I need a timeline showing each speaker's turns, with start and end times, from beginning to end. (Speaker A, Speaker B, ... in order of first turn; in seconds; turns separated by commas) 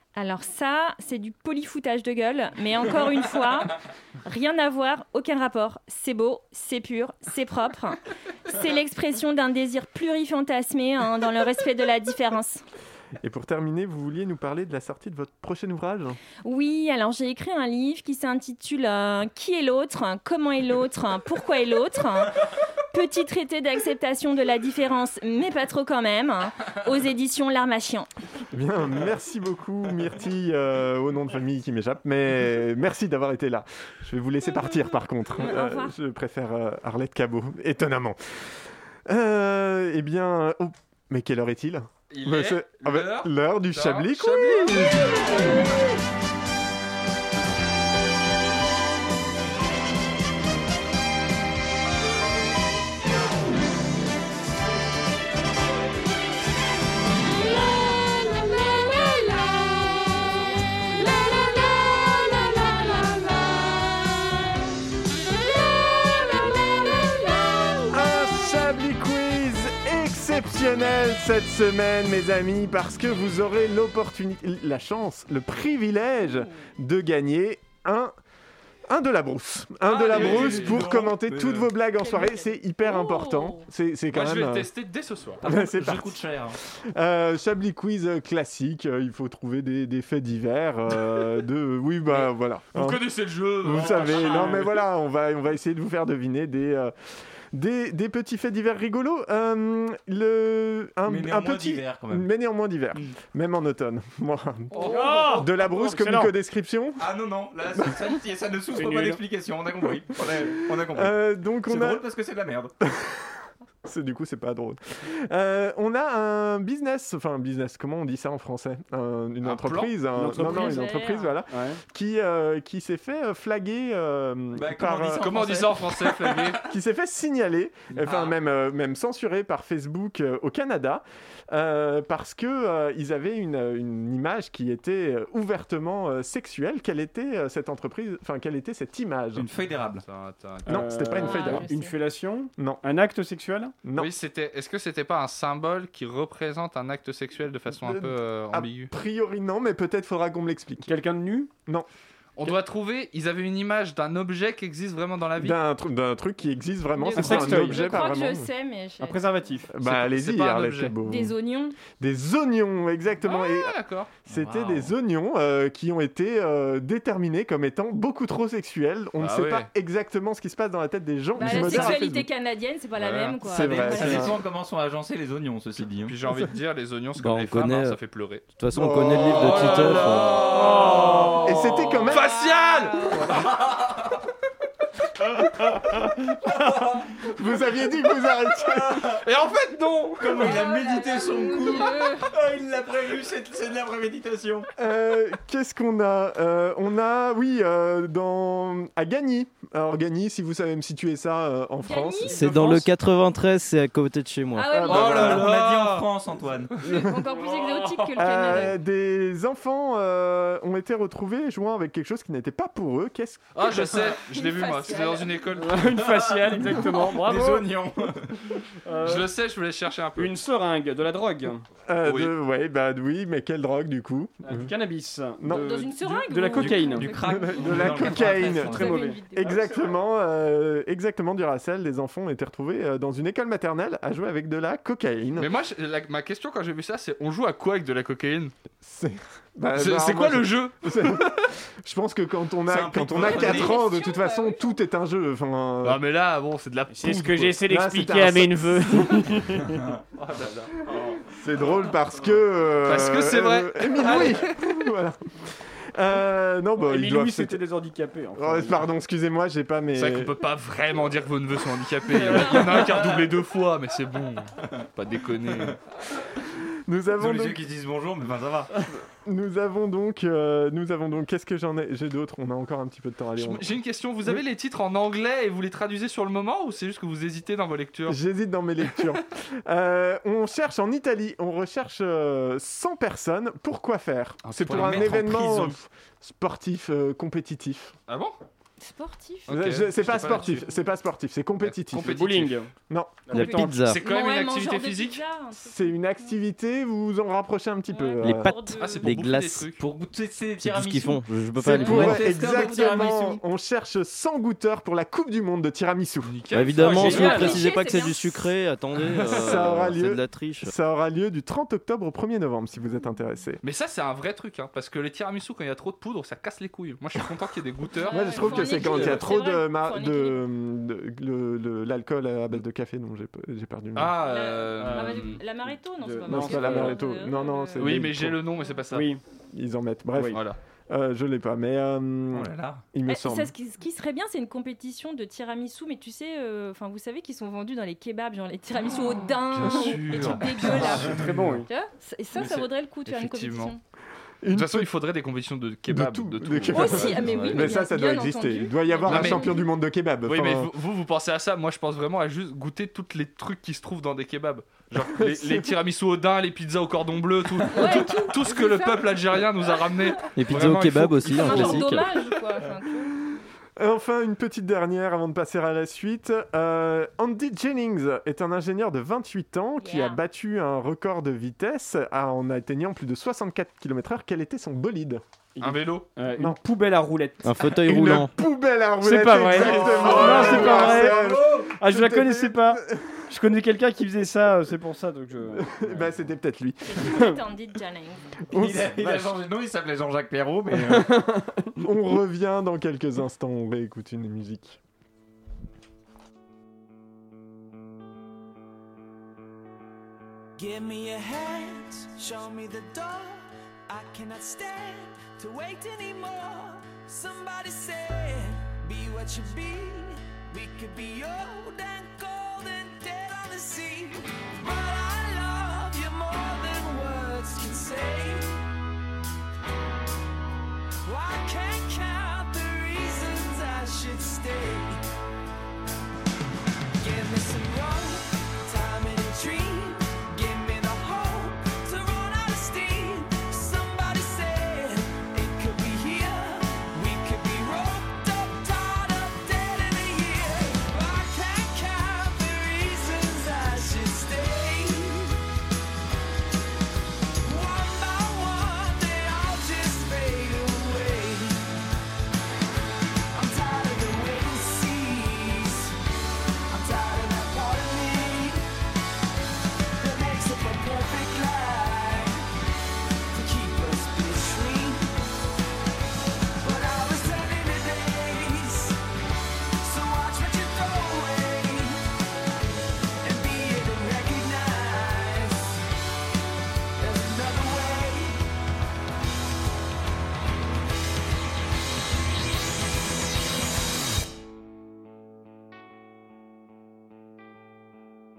Speaker A: 0.1-3.7, Speaker A: 4.2-12.6, Speaker B: 13.2-16.2, Speaker A: 16.4-22.4, Speaker A: 22.9-28.1, Speaker B: 28.5-38.2, Speaker A: 35.4-35.9, Speaker B: 39.0-45.2, Speaker C: 42.1-45.1, Speaker B: 67.9-78.1, Speaker B: 78.9-84.7, Speaker D: 79.9-81.7, Speaker C: 79.9-80.8, Speaker A: 81.9-83.7, Speaker C: 84.1-85.4, Speaker B: 85.4-86.2, Speaker D: 85.4-86.6, Speaker B: 86.9-93.0, Speaker C: 92.1-94.8, Speaker B: 93.6-96.9, Speaker D: 93.8-94.4, Speaker B: 97.5-107.0, Speaker D: 101.0-102.3, Speaker E: 104.7-106.3, Speaker C: 104.8-105.3, Speaker D: 107.0-112.7, Speaker E: 108.8-109.2, Speaker B: 110.5-112.0, Speaker B: 113.0-113.2, Speaker B: 113.8-125.4, Speaker C: 119.4-119.9, Speaker E: 120.2-120.9, Speaker A: 120.3-121.4, Speaker E: 121.5-121.8, Speaker D: 124.5-126.6, Speaker C: 125.2-126.6, Speaker B: 126.6-139.5, Speaker D: 128.0-128.3, Speaker D: 139.3-140.0, Speaker C: 140.0-140.8, Speaker B: 140.7-141.7, Speaker E: 140.7-143.7, Speaker A: 141.1-141.9, Speaker B: 143.8-144.1, Speaker C: 144.0-148.9, Speaker B: 147.8-150.9, Speaker E: 150.8-151.5, Speaker C: 152.3-155.6, Speaker B: 155.4-158.5, Speaker A: 157.0-159.2, Speaker E: 157.2-157.9, Speaker E: 159.0-159.7, Speaker B: 159.7-163.7, Speaker C: 159.8-161.0, Speaker A: 161.0-161.8, Speaker C: 163.2-164.1, Speaker B: 164.3-172.3, Speaker D: 164.3-164.9, Speaker C: 169.2-169.7, Speaker A: 171.3-174.3, Speaker C: 172.9-173.7, Speaker B: 173.4-174.3, Speaker D: 173.7-176.2, Speaker C: 176.0-178.4, Speaker F: 177.2-178.0, Speaker F: 178.5-180.5, Speaker B: 178.7-180.2, Speaker C: 179.2-183.4, Speaker D: 180.7-181.3, Speaker B: 181.4-182.3, Speaker A: 182.2-183.2, Speaker D: 183.2-184.1, Speaker B: 185.8-189.1, Speaker D: 186.7-187.0, Speaker D: 188.6-189.2, Speaker C: 189.2-190.5, Speaker D: 190.2-194.7, Speaker A: 190.4-192.3, Speaker B: 194.8-202.7, Speaker A: 201.8-202.7, Speaker F: 202.3-204.9, Speaker A: 204.5-205.4, Speaker C: 204.8-206.1, Speaker D: 204.9-206.7, Speaker B: 204.9-205.3, Speaker B: 206.8-207.1, Speaker A: 206.9-208.8, Speaker B: 208.1-213.7, Speaker C: 213.5-215.9, Speaker A: 213.8-215.4, Speaker E: 215.5-217.8, Speaker D: 215.9-218.4, Speaker E: 218.8-219.3, Speaker C: 219.0-220.3, Speaker E: 220.2-221.6, Speaker B: 221.9-224.7, Speaker C: 222.0-222.3, Speaker E: 224.4-227.1, Speaker B: 225.4-225.7, Speaker A: 225.5-229.6, Speaker D: 226.5-229.0, Speaker B: 227.2-235.5, Speaker E: 227.8-229.9, Speaker C: 235.4-238.5, Speaker B: 238.8-246.0, Speaker C: 239.7-241.4, Speaker D: 242.7-243.8, Speaker A: 243.2-244.8, Speaker C: 245.8-247.6, Speaker E: 246.9-249.7, Speaker B: 247.7-249.4, Speaker C: 250.2-250.8, Speaker B: 251.3-257.6, Speaker C: 252.8-254.6, Speaker E: 256.8-258.8, Speaker B: 258.4-260.4, Speaker C: 259.9-265.8, Speaker D: 262.8-263.2, Speaker B: 266.9-267.6, Speaker D: 267.2-268.8, Speaker B: 269.2-273.7, Speaker C: 273.4-278.2, Speaker B: 278.1-287.9, Speaker C: 284.4-285.4, Speaker D: 284.6-285.8, Speaker C: 288.1-288.4, Speaker A: 288.8-289.5, Speaker C: 289.5-290.6, Speaker B: 289.5-292.2, Speaker A: 290.2-290.7, Speaker C: 291.6-292.6, Speaker E: 291.9-292.7, Speaker B: 292.9-293.4, Speaker F: 293.3-294.0, Speaker A: 293.3-296.3, Speaker C: 293.7-295.2, Speaker B: 295.5-298.5, Speaker A: 297.9-299.2, Speaker F: 298.2-299.7, Speaker C: 298.8-299.8, Speaker D: 299.8-303.4, Speaker F: 300.6-302.2, Speaker B: 301.6-306.3, Speaker A: 301.6-303.1, Speaker C: 306.2-307.7, Speaker F: 306.5-310.7, Speaker E: 306.8-307.5, Speaker A: 306.9-308.5, Speaker B: 309.3-313.6, Speaker C: 313.6-319.0, Speaker A: 318.0-320.4, Speaker B: 318.1-324.2, Speaker C: 323.9-325.4, Speaker A: 324.2-327.9, Speaker E: 324.8-327.0, Speaker B: 326.3-328.4, Speaker C: 327.8-329.1, Speaker E: 328.9-329.2, Speaker B: 329.5-333.5, Speaker C: 330.3-330.6, Speaker D: 332.3-332.8, Speaker A: 333.1-343.8, Speaker C: 339.5-341.1, Speaker E: 340.8-341.7, Speaker C: 342.3-343.8, Speaker B: 344.4-344.9, Speaker C: 344.5-347.6, Speaker B: 345.9-350.7, Speaker A: 346.7-349.7, Speaker C: 349.1-349.5, Speaker C: 350.2-362.1, Speaker B: 355.0-355.7, Speaker A: 357.7-360.3, Speaker F: 360.3-362.1, Speaker A: 361.2-363.1, Speaker B: 363.8-375.2, Speaker A: 369.8-370.2, Speaker E: 375.6-377.5, Speaker C: 375.6-376.1, Speaker F: 377.4-378.3, Speaker B: 377.6-383.1, Speaker E: 379.0-386.1, Speaker D: 379.6-381.7, Speaker B: 385.5-387.2, Speaker A: 386.9-388.4, Speaker E: 387.0-387.4, Speaker B: 388.5-389.3, Speaker D: 388.5-391.1, Speaker E: 390.7-391.7, Speaker B: 391.8-394.8, Speaker G: 400.6-418.6, Speaker G: 421.0-425.0, Speaker G: 427.0-445.4, Speaker G: 447.4-451.7, Speaker G: 453.3-455.9, Speaker G: 456.7-458.6, Speaker G: 460.0-462.5, Speaker G: 463.3-465.1, Speaker G: 466.6-469.0, Speaker G: 469.8-472.0, Speaker G: 473.2-475.9, Speaker G: 477.0-478.4